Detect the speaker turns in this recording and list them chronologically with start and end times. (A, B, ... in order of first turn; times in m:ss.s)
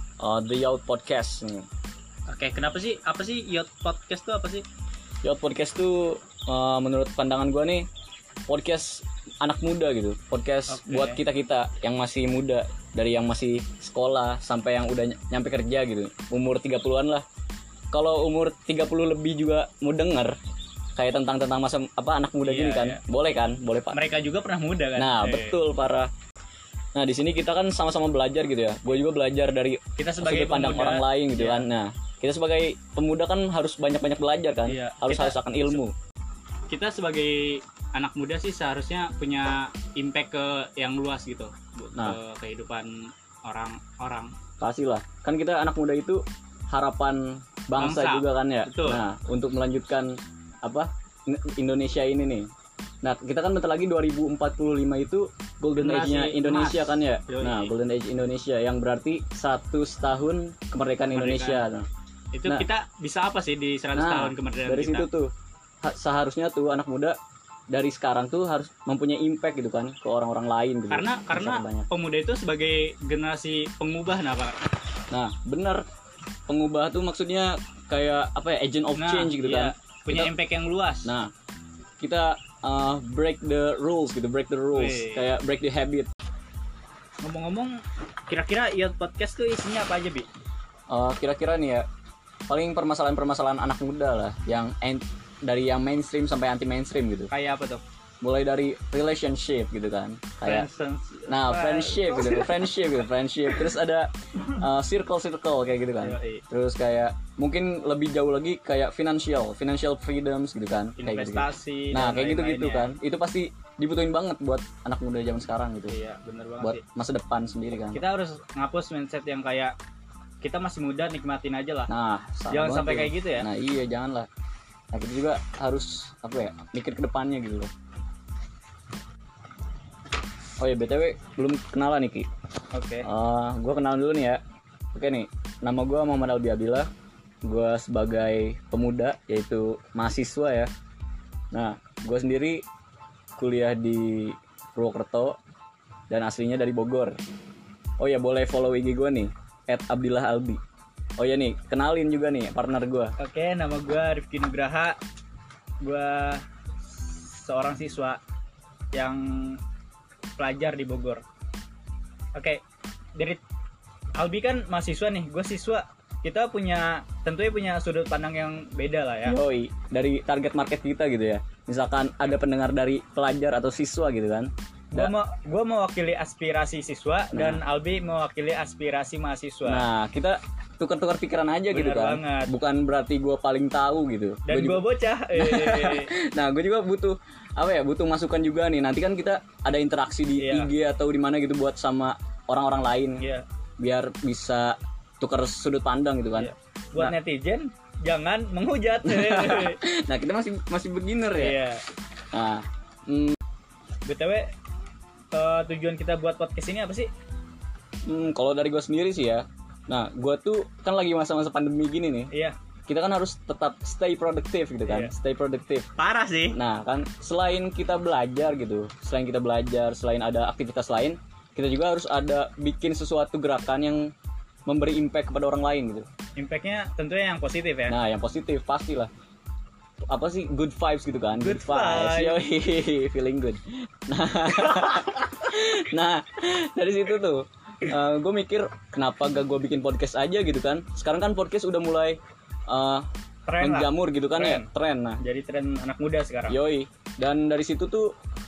0:00.2-0:01.7 A
0:02.3-0:04.6 B
0:05.2-0:07.9 A
0:08.5-0:17.2 A
0:10.7-0:11.2 B
0:17.9-0:20.4 A
0:21.0-0:24.0 A
0:22.4-0:23.0 B
0:23.9-0:25.6 B
0:25.0-0:26.1 A
0:26.9-0:35.9 A
0:30.0-0:31.7 B
0:34.6-0:35.8 B
0:36.7-0:44.3 B
0:44.6-0:52.5 A
0:47.8-0:49.0 B
0:53.0-1:01.9 A
0:55.8-0:57.7 B
1:01.1-1:01.6 B
1:02.3-1:05.1 B
1:03.9-1:05.3 A
1:05.8-1:07.2 A
1:07.7-1:11.9 A
1:10.9-1:14.6 B
1:15.1-1:15.8 A
1:16.5-1:20.3 A
1:18.9-1:21.1 B
1:21.0-1:21.3 A
1:22.0-1:26.1 A
1:24.7-1:25.3 B
1:27.2-1:27.8 B
1:28.3-1:30.3 B
1:30.9-1:31.8 A
1:32.5-1:37.3 A
1:37.3-1:37.8 B
1:38.2-1:40.7 A
1:40.4-1:42.6 B
1:41.3-1:55.9 A
1:46.0-1:46.4 B
1:51.0-1:52.9 B
1:55.9-1:56.8 B
1:56.6-1:58.0 A
1:57.9-1:59.7 B
2:00.4-2:01.9 B
2:01.9-2:04.3 A
2:02.5-2:03.5 B
2:04.9-2:07.7 A
2:10.6-2:12.3 A
2:12.7-2:13.1 B
2:13.0-2:14.4 A
2:14.9-2:16.9 A
2:17.4-2:20.7 A
2:21.5-2:22.6 A
2:23.4-2:25.4 A
2:26.1-2:27.2 A
2:28.0-2:30.6 A
2:31.2-2:33.1 A
2:33.2-2:35.0 B
2:35.8-2:38.2 B
2:38.9-2:39.6 B
2:40.4-2:41.2 B
2:42.4-2:42.6 B
2:44.2-2:49.4 B
2:49.2-2:55.1 A
2:54.9-2:59.8 B
2:57.3-2:57.6 A
2:59.6-3:13.2 A
3:01.7-3:02.5 B
3:04.5-3:06.1 B
3:10.4-3:10.7 B
3:13.2-3:13.4 B
3:13.8-3:17.1 A
3:16.4-3:19.8 B
3:19.0-3:21.6 A
3:21.3-3:21.8 B
3:22.3-3:23.4 A
3:24.0-3:24.5 B
3:25.3-3:27.1 B
3:28.0-3:32.3 A
3:32.3-3:32.6 B
3:32.9-3:35.9 A
3:34.8-3:35.1 B
3:36.0-3:36.6 B
3:36.5-3:44.1 A
3:44.7-3:46.1 A
3:46.4-3:48.0 B
3:47.9-3:49.1 A
3:50.1-4:03.1 A
3:51.4-3:52.4 B
4:03.5-4:04.7 B
4:03.6-4:05.2 A
4:05.2-4:06.6 B
4:06.5-4:08.1 A